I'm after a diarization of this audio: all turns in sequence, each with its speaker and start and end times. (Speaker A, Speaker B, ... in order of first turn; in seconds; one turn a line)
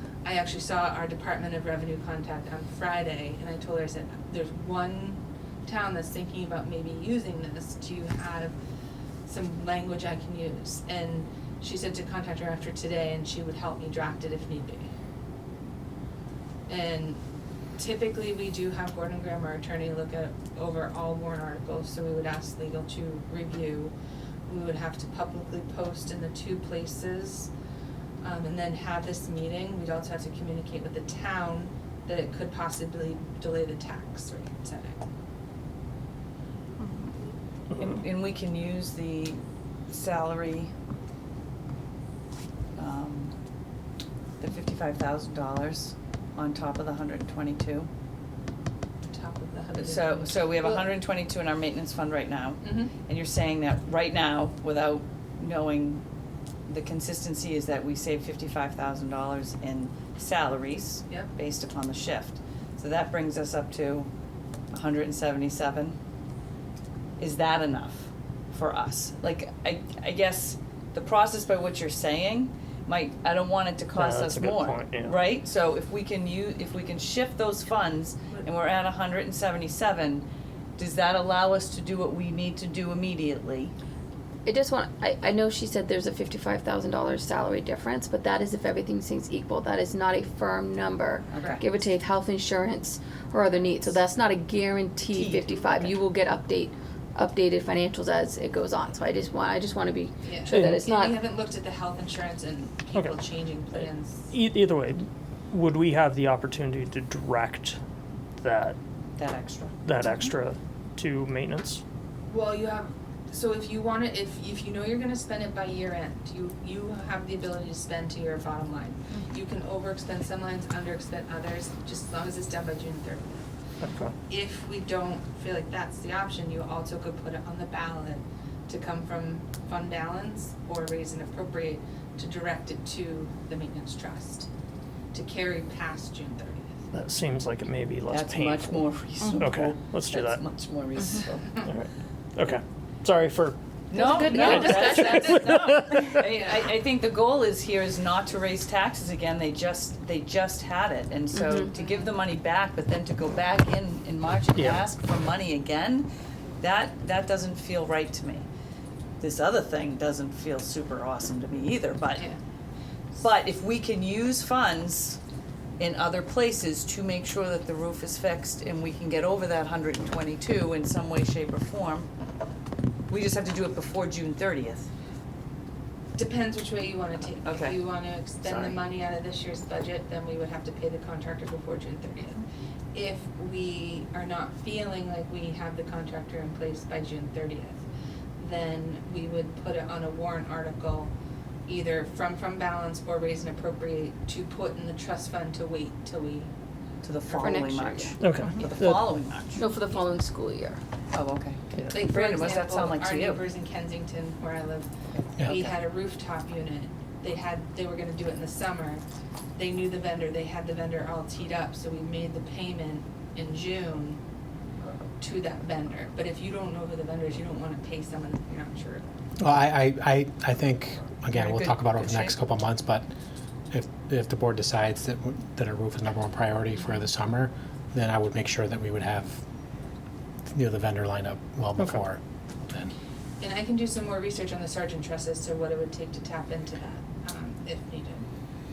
Speaker A: 0.2-8.6
Speaker A: 9.2-14.9
Speaker A: 16.7-17.2
Speaker A: 17.8-23.9
Speaker A: 24.5-27.5
Speaker A: 28.2-35.0
Speaker B: 37.8-40.7
Speaker B: 42.8-43.3
Speaker B: 44.4-47.9
Speaker A: 49.0-50.9
Speaker B: 49.7-56.0
Speaker A: 52.6-52.9
Speaker B: 56.7-64.1
Speaker B: 64.7-65.9
Speaker B: 67.2-80.2
Speaker C: 73.9-75.2
Speaker B: 80.8-83.7
Speaker D: 84.5-101.2
Speaker B: 91.3-91.7
Speaker A: 91.4-91.6
Speaker B: 95.1-95.9
Speaker A: 100.2-104.3
Speaker C: 104.3-107.8
Speaker C: 108.4-108.8
Speaker B: 109.2-109.7
Speaker C: 109.8-111.8
Speaker A: 112.3-123.4
Speaker C: 123.8-124.1
Speaker A: 124.3-134.5
Speaker A: 135.1-136.8
Speaker C: 136.9-140.4
Speaker B: 138.1-141.6
Speaker D: 139.2-139.5
Speaker C: 141.6-143.6
Speaker B: 143.9-156.1
Speaker D: 143.9-145.7
Speaker C: 144.3-146.2
Speaker D: 151.4-151.7
Speaker A: 151.7-152.1
Speaker C: 154.6-154.8
Speaker B: 156.6-158.4
Speaker B: 159.2-162.3
Speaker B: 163.2-165.2
Speaker B: 165.8-172.1
Speaker B: 173.1-174.9
Speaker A: 176.2-182.4
Speaker B: 177.4-177.8
Speaker A: 182.9-187.8
Speaker A: 188.4-191.1
Speaker A: 191.7-196.5
Speaker B: 197.0-199.6
Speaker D: 197.3-198.2
Speaker C: 198.2-199.1
Speaker D: 199.6-200.8
Speaker B: 201.1-203.4
Speaker A: 201.9-204.9
Speaker B: 205.4-205.8
Speaker A: 205.4-209.0
Speaker A: 209.6-214.2
Speaker A: 215.2-219.0
Speaker E: 219.4-223.1
Speaker B: 221.3-222.4
Speaker E: 223.7-229.4
Speaker E: 230.5-232.9
Speaker A: 233.4-238.3